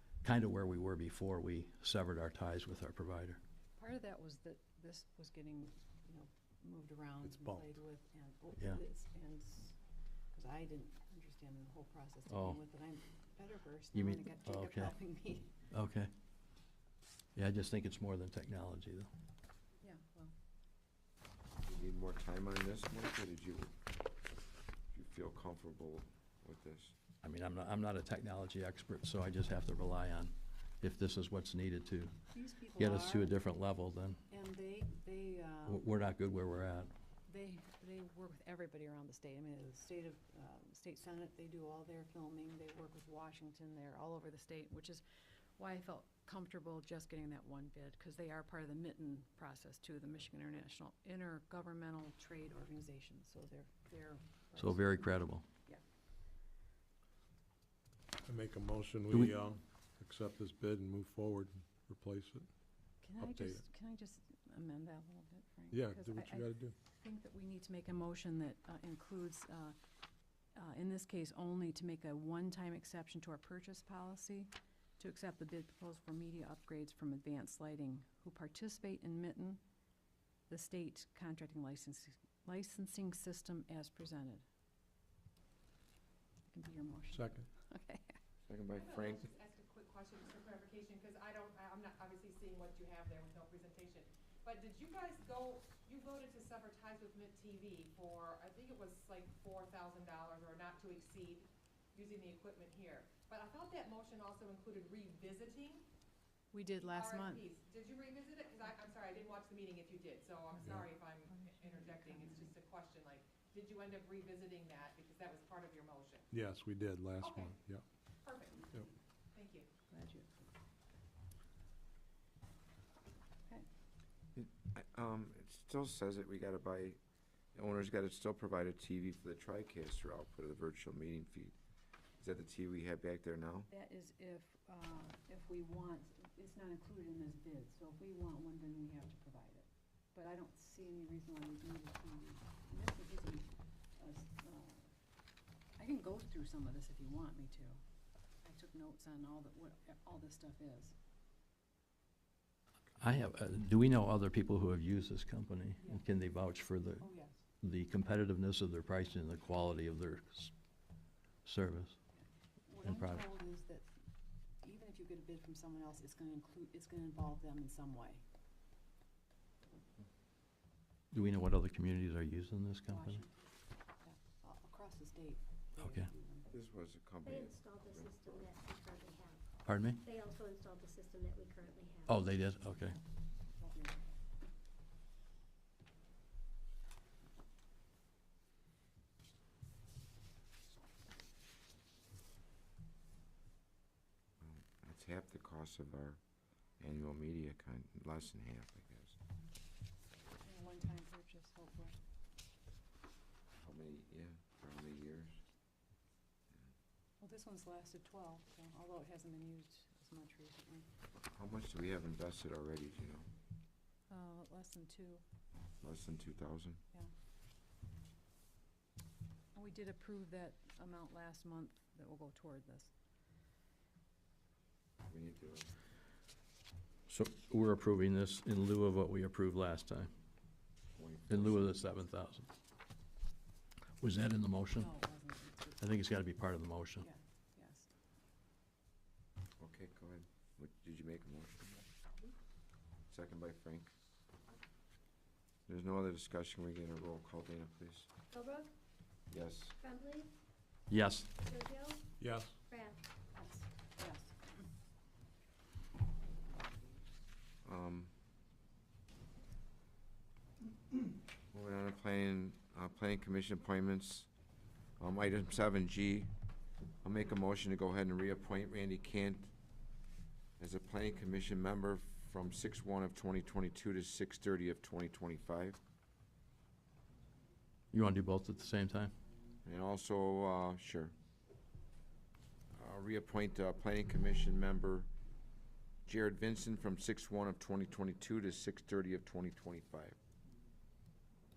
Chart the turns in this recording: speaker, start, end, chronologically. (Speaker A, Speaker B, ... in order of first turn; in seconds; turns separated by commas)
Speaker A: 0.2-3.4, Speaker B: 3.8-9.8, Speaker C: 7.3-7.6, Speaker B: 10.3-15.5, Speaker A: 12.3-12.6, Speaker A: 13.9-14.9, Speaker A: 15.7-16.1, Speaker A: 17.4-19.1, Speaker B: 19.8-20.3, Speaker D: 21.6-23.7, Speaker D: 24.9-26.9, Speaker A: 27.2-32.1, Speaker B: 32.3-33.4, Speaker A: 32.7-34.2, Speaker B: 34.3-35.8, Speaker A: 35.6-36.9, Speaker B: 37.3-45.0, Speaker B: 45.6-55.0, Speaker A: 54.6-55.4, Speaker C: 58.2-62.5, Speaker B: 63.0-69.8, Speaker C: 63.2-63.6, Speaker C: 65.7-66.7, Speaker B: 70.5-79.6, Speaker B: 80.5-84.4, Speaker B: 86.5-88.2, Speaker C: 87.1-87.5, Speaker D: 88.5-89.3, Speaker E: 88.8-105.8, Speaker B: 106.5-107.5, Speaker E: 106.8-116.3, Speaker B: 110.5-112.5, Speaker C: 116.3-117.8, Speaker E: 117.2-117.5, Speaker E: 118.2-118.8, Speaker E: 119.3-119.7, Speaker B: 119.9-120.5, Speaker D: 124.3-127.0, Speaker D: 127.5-131.6, Speaker D: 132.2-133.7, Speaker B: 133.7-144.9, Speaker B: 145.8-147.8, Speaker B: 148.4-150.9, Speaker A: 153.0-160.5, Speaker B: 157.0-157.4, Speaker A: 161.4-162.0, Speaker B: 162.2-163.9, Speaker A: 162.8-163.3, Speaker B: 164.6-168.2, Speaker A: 171.1-173.2, Speaker B: 172.9-173.3, Speaker B: 174.0-176.5, Speaker A: 175.8-176.1, Speaker D: 176.5-178.1, Speaker F: 177.2-182.2, Speaker A: 179.7-180.0, Speaker A: 182.1-183.0, Speaker B: 183.6-184.0, Speaker D: 194.4-196.2, Speaker D: 196.8-199.2, Speaker B: 200.4-202.0, Speaker D: 203.6-205.4, Speaker B: 207.2-210.8, Speaker D: 211.3-213.2, Speaker B: 214.1-215.2, Speaker D: 215.8-216.8, Speaker B: 219.5-222.9, Speaker D: 225.1-225.7, Speaker A: 227.1-230.1, Speaker D: 230.9-231.7, Speaker A: 231.3-232.5, Speaker A: 234.0-234.9, Speaker B: 234.7-236.0, Speaker A: 235.8-237.1, Speaker B: 237.0-237.9, Speaker D: 239.6-241.8, Speaker D: 243.1-243.9, Speaker D: 245.7-248.1, Speaker F: 248.3-248.7, Speaker D: 249.3-249.8, Speaker F: 249.8-250.3, Speaker A: 250.9-251.3, Speaker F: 251.3-252.1, Speaker C: 252.2-252.6, Speaker F: 252.7-253.0, Speaker B: 253.3-254.4, Speaker D: 257.6-258.1, Speaker D: 261.5-264.3, Speaker D: 265.0-266.3, Speaker D: 267.0-269.5, Speaker D: 270.6-275.8, Speaker A: 277.9-279.1, Speaker D: 279.6-281.1, Speaker D: 282.7-285.1, Speaker D: 286.1-290.1